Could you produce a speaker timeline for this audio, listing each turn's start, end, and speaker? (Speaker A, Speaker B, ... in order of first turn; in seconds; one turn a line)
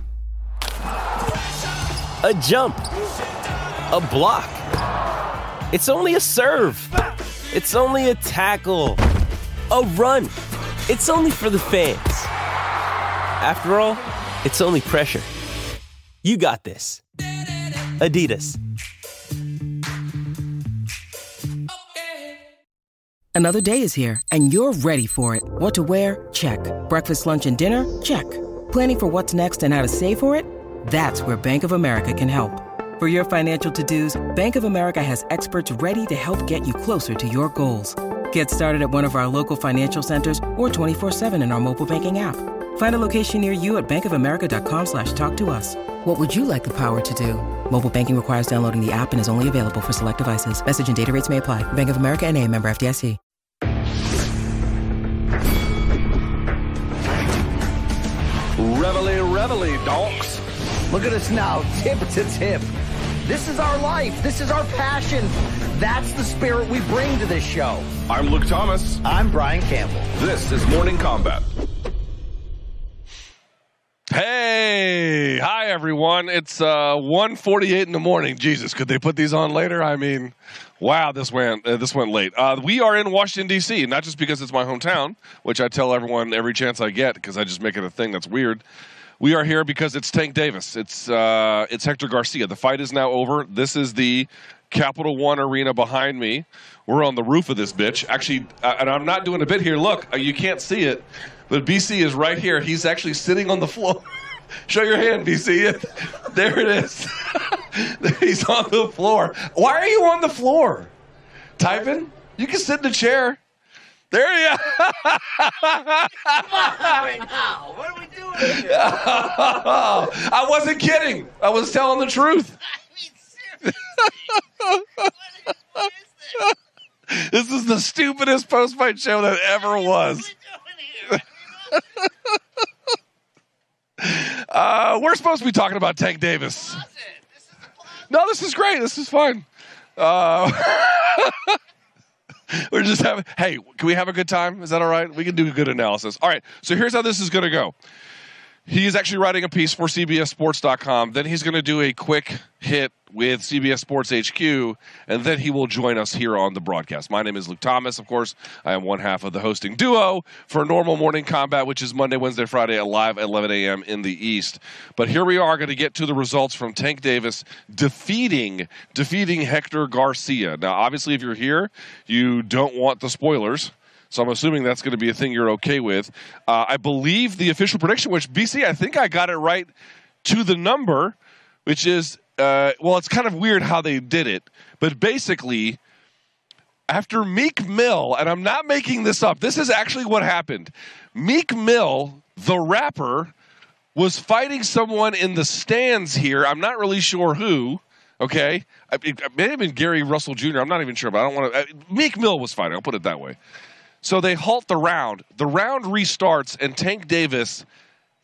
Speaker A: 2.2-2.9
Speaker A: 3.9-4.6
Speaker A: 5.7-6.9
Speaker A: 7.5-9.0
Speaker A: 9.7-10.3
Speaker A: 10.9-12.3
Speaker A: 13.4-15.3
Speaker A: 16.2-17.0
Speaker A: 17.9-18.6
Speaker B: 23.3-53.2
Speaker C: 58.6-60.4
Speaker D: 60.9-62.7
Speaker D: 63.2-67.9
Speaker C: 68.1-69.0
Speaker D: 69.0-70.1
Speaker C: 70.2-71.5
Speaker E: 74.1-88.6
Speaker E: 89.2-104.1
Speaker E: 104.7-110.9
Speaker E: 111.6-113.4
Speaker E: 114.1-117.3
Speaker E: 118.3-122.5
Speaker E: 123.7-125.1
Speaker E: 125.8-126.5
Speaker E: 127.1-130.3
Speaker E: 131.1-132.1
Speaker E: 134.0-136.9
Speaker E: 138.1-141.6
Speaker E: 142.5-147.7
Speaker E: 148.7-179.7
Speaker E: 180.2-185.8
Speaker E: 186.9-193.3
Speaker E: 193.9-203.4
Speaker E: 204.0-207.7